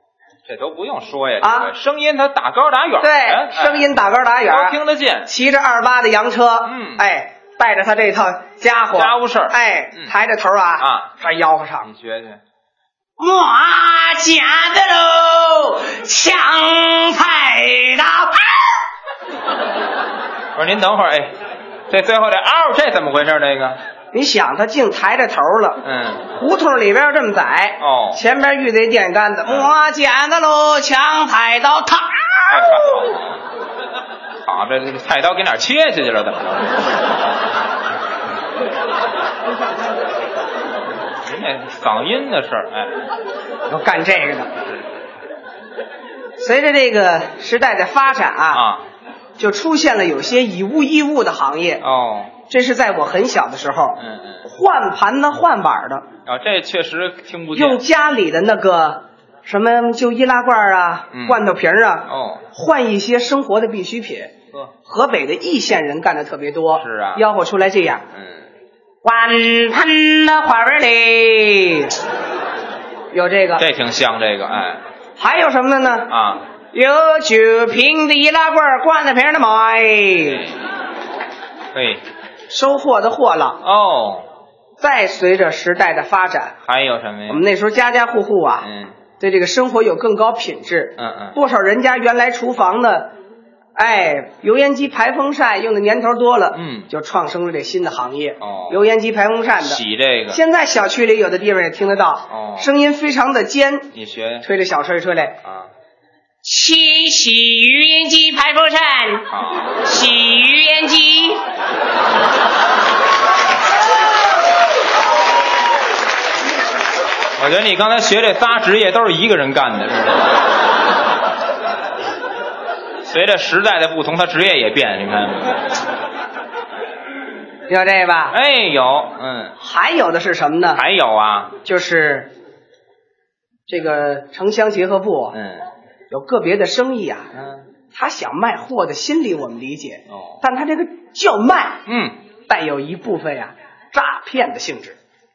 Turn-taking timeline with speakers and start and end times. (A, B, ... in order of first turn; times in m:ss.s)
0:00.4-0:03.9 A
0:01.4-0:01.7 B
0:03.0-0:11.9 B
0:04.5-0:05.3 A
0:06.6-0:07.0 A
0:08.9-0:10.1 A
0:10.8-0:11.1 A
0:11.8-0:12.4 A
0:13.2-0:18.8 B
0:20.5-0:21.3 A
0:21.9-0:23.8 A
0:24.1-0:32.8 B
0:25.8-0:26.3 A
0:27.8-0:28.2 A
0:32.5-0:33.4 A
0:34.4-0:36.8 A
0:41.2-0:43.0 A
0:43.7-0:44.5 B
0:46.4-0:48.7 B
0:48.5-0:48.8 A
0:49.4-0:51.8 B
0:51.8-0:52.4 A
0:52.5-0:56.0 B
0:54.0-0:54.4 A
0:56.2-0:57.8 A
0:57.5-1:08.0 B
1:01.1-1:01.5 A
1:02.1-1:02.4 A
1:06.8-1:07.2 A
1:08.1-1:08.4 A
1:09.0-1:12.0 B
1:13.1-1:13.6 B
1:13.6-1:14.8 A
1:15.2-1:16.1 B
1:16.1-1:16.4 A
1:16.7-1:20.5 B
1:20.2-1:20.5 A
1:21.7-1:22.0 A
1:22.5-1:23.6 B
1:23.6-1:24.2 A
1:24.8-1:26.6 B
1:26.6-1:27.4 A
1:27.3-1:28.7 B
1:28.6-1:28.9 A
1:29.2-1:33.1 B
1:31.0-1:31.4 A
1:33.8-1:45.4 B
1:36.5-1:36.9 A
1:38.4-1:38.8 A
1:39.6-1:40.4 A
1:42.3-1:42.7 A
1:43.9-1:44.4 A
1:45.4-1:45.7 A
1:46.4-1:51.4 B
1:49.3-1:49.8 A
1:57.4-2:00.4 A
2:03.0-2:05.6 A
2:07.7-2:08.4 B
2:08.3-2:09.6 A
2:09.6-2:10.8 B
2:10.8-2:11.6 A
2:11.6-2:12.3 B
2:13.7-2:15.4 B
2:15.3-2:15.7 A
2:16.1-2:17.3 B
2:17.3-2:17.6 A
2:17.9-2:21.8 B
2:21.8-2:22.2 A
2:22.5-2:25.0 B